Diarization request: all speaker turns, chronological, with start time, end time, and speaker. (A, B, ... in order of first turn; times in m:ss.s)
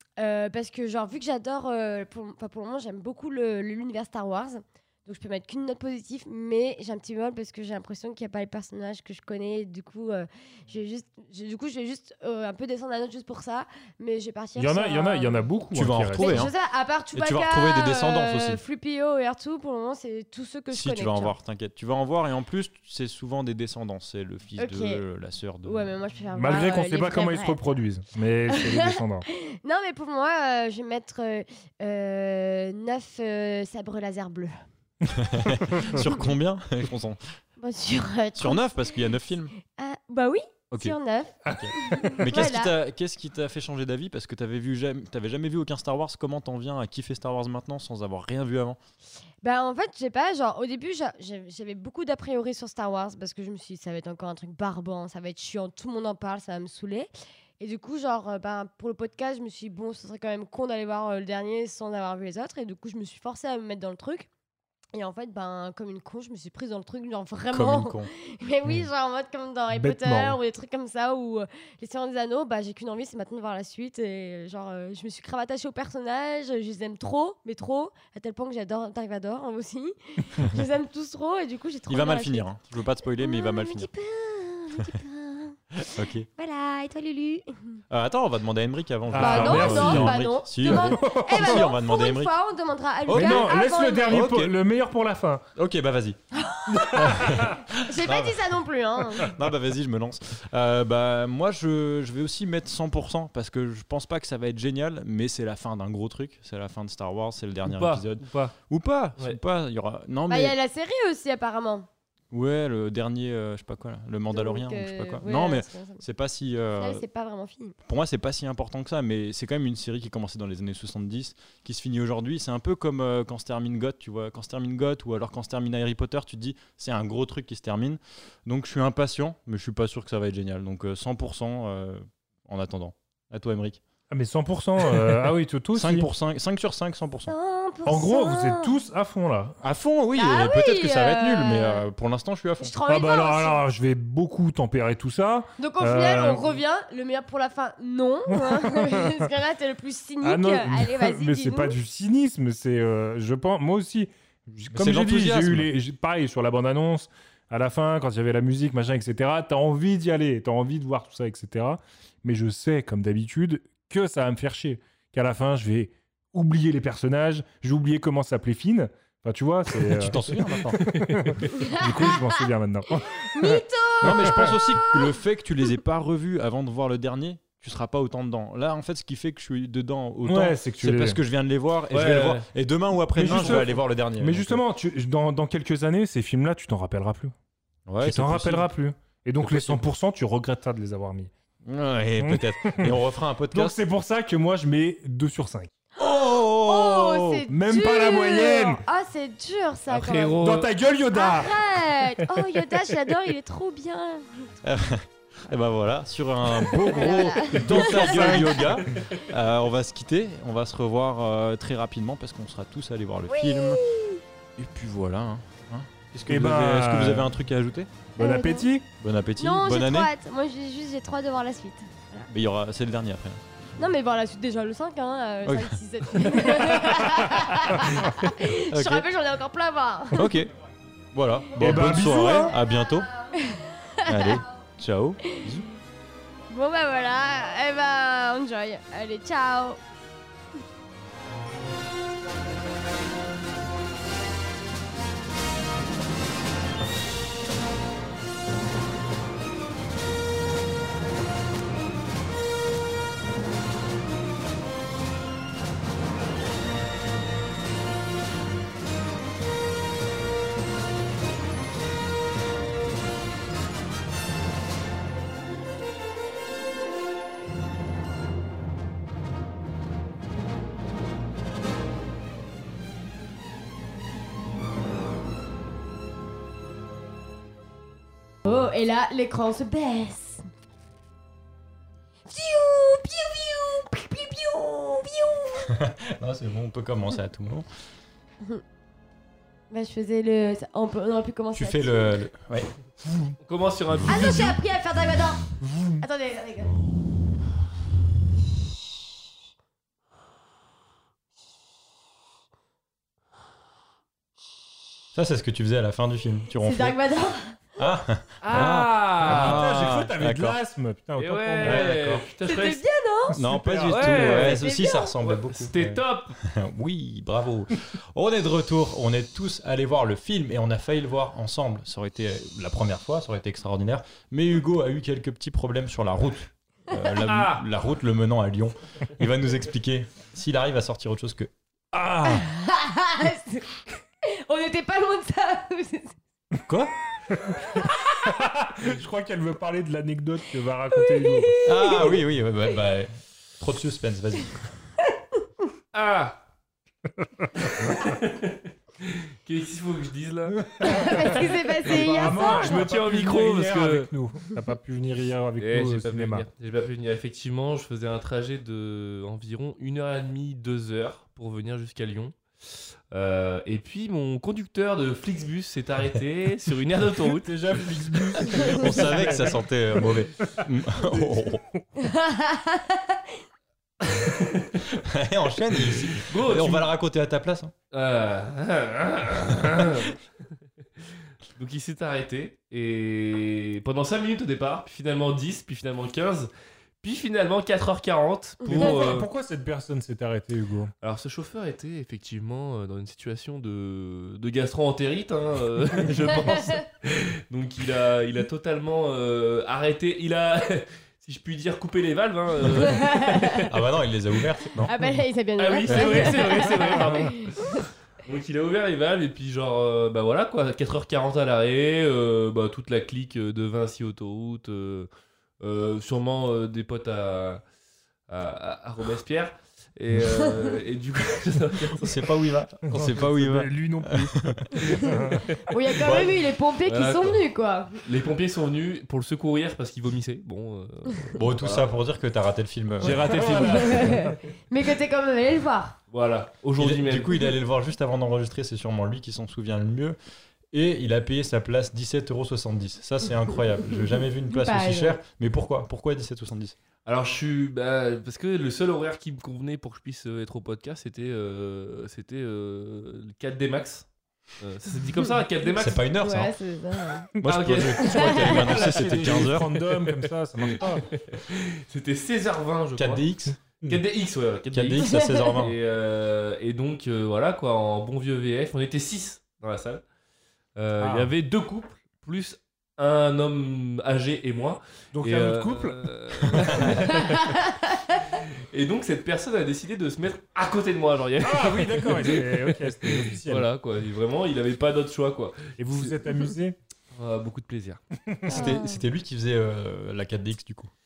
0:00.2-0:15.5 A
0:14.6-0:16.5 B
0:15.7-0:16.5 C
0:16.2-0:21.3 A
0:17.1-0:18.6 C
0:20.7-0:25.9 C
0:24.6-0:25.0 A
0:25.6-0:27.6 A
0:26.4-0:29.3 B
0:28.5-0:34.5 A
0:35.0-0:37.2 C
0:37.6-0:38.6 A
0:38.4-0:39.5 C
0:39.7-0:42.7 A
0:41.4-0:42.2 B
0:41.5-0:48.8 C
0:49.4-0:57.1 A
0:57.6-1:04.3 A
1:04.9-1:22.5 A
1:07.5-1:08.1 C
1:09.7-1:10.4 B
1:21.9-1:23.9 C
1:23.2-1:25.6 A
1:25.9-1:26.3 C
1:26.4-1:27.8 A
1:27.9-1:32.3 C
1:29.1-1:31.7 B
1:29.2-1:34.2 A
1:33.1-1:33.5 C
1:33.1-1:35.4 B
1:34.1-1:34.5 C
1:35.6-1:36.2 C
1:36.3-1:39.3 A
1:36.7-1:37.6 B
1:37.0-1:38.5 C
1:39.2-1:50.6 C
1:47.6-1:48.6 D
1:50.3-1:51.9 A
1:52.3-1:57.0 C
1:54.3-1:56.0 A
1:56.8-1:57.8 A
1:57.8-2:13.8 C
2:14.1-2:16.1 B
2:14.9-2:15.2 C
2:15.7-2:17.3 C
2:17.3-2:18.8 A
2:17.9-2:19.6 B
2:19.6-2:22.7 C
2:20.2-2:21.8 A
2:22.6-2:23.6 A
2:22.9-2:26.6 B
2:25.6-2:31.8 A
2:28.3-2:29.3 B
2:30.2-2:54.6 B
2:34.7-2:35.7 C
2:49.8-2:50.8 C
2:50.9-2:51.5 D
2:51.6-2:52.5 A
2:53.2-2:55.1 A
2:54.0-3:04.6 C
3:00.2-3:01.2 B
3:01.9-3:02.5 D
3:03.1-3:07.3 B
3:03.3-3:03.7 D
3:07.9-3:08.7 C
3:08.0-3:11.3 B
3:09.4-3:09.8 C
3:11.6-3:13.8 C
3:12.2-3:13.0 B
3:13.5-3:15.7 B
3:16.0-3:20.5 A
3:16.0-3:17.4 C
3:17.5-3:18.8 B
3:19.9-3:20.7 D
3:20.4-3:21.6 B
3:21.1-3:24.5 A
3:22.1-3:22.6 B
3:24.6-3:33.8 C
3:26.8-3:28.6 A
3:27.5-3:28.9 B
3:33.3-3:34.2 A
3:34.6-3:38.0 C
3:36.3-3:37.3 B
3:38.2-3:38.9 B
3:38.2-3:38.7 A
3:39.0-3:40.1 C
3:39.4-3:42.3 A
3:42.3-3:43.4 C
3:43.8-3:50.2 A
3:45.4-3:45.8 C
3:48.7-3:49.1 C
3:50.1-3:50.5 C
3:51.1-3:53.1 C
3:51.6-3:52.5 B
3:51.8-3:52.5 A
3:53.2-3:54.4 A
3:54.1-3:55.6 C
3:56.5-3:59.8 A
4:38.5-4:40.4 A
4:42.3-4:45.7 A
4:45.7-4:47.7 C
4:49.7-4:52.2 A
4:51.5-4:53.4 C
4:53.4-4:54.6 D
4:54.1-4:55.5 A
4:55.6-4:56.0 B
4:56.0-4:56.7 A
5:05.1-5:07.0 C
5:06.6-5:07.6 A
5:07.8-5:10.6 C
5:08.4-5:09.7 D
5:09.2-5:12.0 B
5:11.2-5:12.8 D
5:11.6-5:12.2 C
5:12.4-5:13.4 A
5:13.3-5:31.5 C
5:13.4-5:14.1 B
5:13.9-5:14.6 D
5:14.2-5:15.2 A
5:15.2-5:16.3 D
5:27.2-5:27.6 D
5:32.0-5:32.4 B
5:32.3-5:36.2 A
5:36.7-5:36.9 C
5:37.4-5:41.5 B
5:41.0-5:42.2 A
5:41.6-5:44.7 C
5:45.9-5:46.4 D
5:47.2-5:47.9 B
5:47.8-5:51.2 D
5:50.5-5:56.5 B
5:50.8-5:52.8 A
5:52.2-5:54.1 D
5:55.6-6:02.4 D
6:03.1-6:08.4 D
6:07.4-6:09.6 B
6:08.6-6:11.6 C
6:10.4-6:11.8 B
6:12.0-6:13.2 A
6:14.3-6:14.8 D
6:14.9-6:17.7 C
6:16.2-6:16.9 D
6:17.9-6:20.2 D
6:21.6-6:26.5 D
6:27.0-6:29.3 D
6:28.7-6:30.9 B
6:31.0-6:43.7 D
6:36.5-6:36.8 A
6:42.8-6:43.7 A
6:43.6-6:44.9 C
6:44.8-6:47.8 A
6:45.6-6:55.1 D
6:45.9-6:46.5 C
6:55.6-6:57.6 D
6:58.3-7:02.3 D
7:02.0-7:05.0 C
7:02.9-7:05.5 B
7:05.7-7:08.0 A
7:06.0-7:06.4 C
7:06.9-7:07.4 D
7:08.0-7:12.0 D
7:11.4-7:13.8 C
7:13.0-7:14.2 D
7:13.3-7:14.3 B
7:13.6-7:16.0 A
7:16.1-7:17.4 D
7:16.8-7:20.2 C
7:20.7-7:26.8 C
7:24.5-7:25.2 A
7:27.1-7:34.1 D
7:34.6-7:36.0 D
7:35.7-7:36.6 C
7:36.2-7:37.3 A
7:37.4-7:39.7 C
7:37.5-7:39.5 D
7:38.0-7:38.5 A
7:38.5-7:41.1 B
7:41.1-7:43.2 D
7:43.0-7:43.6 C
7:43.8-7:50.0 D
7:44.7-7:45.8 C
7:45.0-7:45.5 A
7:50.8-7:57.7 D
7:51.0-7:51.3 B
7:55.1-7:57.0 B
7:56.6-7:56.9 C
7:57.2-7:58.0 A
7:58.3-8:06.2 D
8:01.4-8:03.7 B
8:05.8-8:06.8 B
8:07.1-8:08.0 D
8:08.3-8:08.7 B
8:08.5-8:09.0 A
8:08.5-8:10.9 C